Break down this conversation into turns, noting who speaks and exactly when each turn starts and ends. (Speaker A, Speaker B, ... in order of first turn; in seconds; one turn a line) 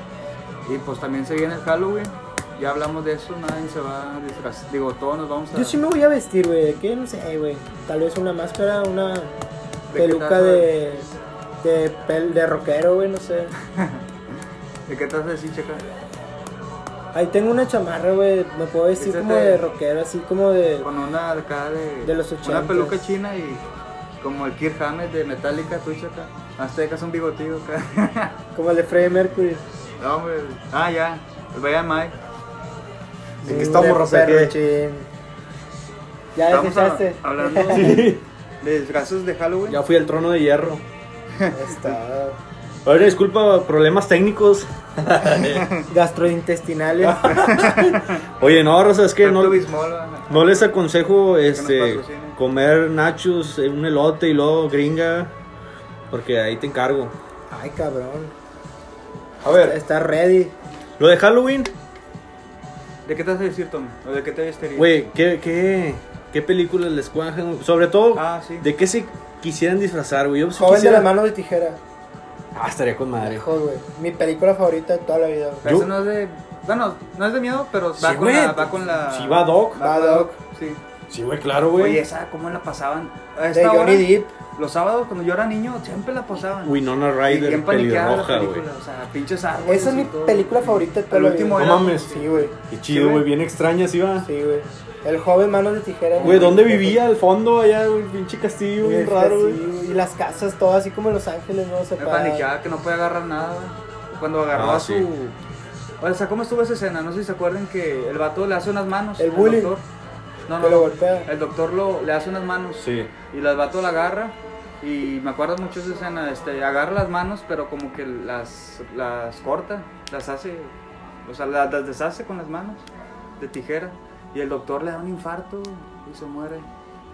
Speaker A: 0.6-5.8
Speaker B: 5.5-9.3
Speaker A: 9.9-10.7
Speaker B: 9.9-11.1
Speaker B: 11.6-13.5
Speaker A: 13.7-14.1
Speaker A: 14.9-15.8
Speaker B: 17.1-20.9
Speaker A: 19.0-19.6
Speaker A: 20.8-23.6
Speaker B: 22.0-23.1
Speaker A: 24.2-28.4
Speaker B: 28.5-29.6
Speaker A: 30.0-32.1
Speaker B: 33.4-35.1
Speaker C: 33.4-34.6
Speaker B: 36.3-38.1
Speaker A: 36.5-39.8
Speaker C: 37.6-38.2
Speaker C: 39.7-40.8
Speaker A: 41.4-42.0
Speaker B: 41.5-42.4
Speaker C: 42.8-45.7
Speaker A: 45.5-45.9
Speaker B: 45.9-47.3
Speaker C: 47.0-49.6
Speaker A: 47.3-48.2
Speaker A: 49.2-50.7
Speaker C: 50.3-55.3
Speaker A: 51.5-52.4
Speaker C: 56.1-57.1
Speaker B: 57.5-58.3
Speaker C: 59.4-59.8
Speaker B: 59.5-60.5
Speaker C: 61.0-61.7
Speaker A: 63.0-64.9
Speaker C: 64.8-71.1
Speaker A: 68.1-68.7
Speaker B: 70.5-71.8
Speaker C: 72.5-73.4
Speaker B: 73.2-75.7
Speaker A: 75.6-80.8
Speaker C: 75.6-75.9
Speaker C: 78.0-79.9
Speaker B: 79.8-80.4
Speaker C: 81.1-82.0
Speaker A: 81.8-93.2
Speaker B: 83.5-84.3
Speaker C: 86.6-88.6
Speaker B: 89.7-92.5
Speaker C: 91.5-92.2
Speaker C: 92.7-94.3
Speaker B: 94.2-97.0
Speaker A: 96.2-96.6
Speaker C: 96.2-99.6
Speaker B: 98.8-102.5
Speaker A: 102.0-105.3
Speaker C: 104.5-105.1
Speaker A: 106.0-109.8
Speaker B: 109.2-109.8
Speaker A: 110.5-120.7
Speaker B: 110.6-111.3
Speaker C: 112.8-113.1
Speaker A: 121.2-122.8
Speaker A: 123.4-126.7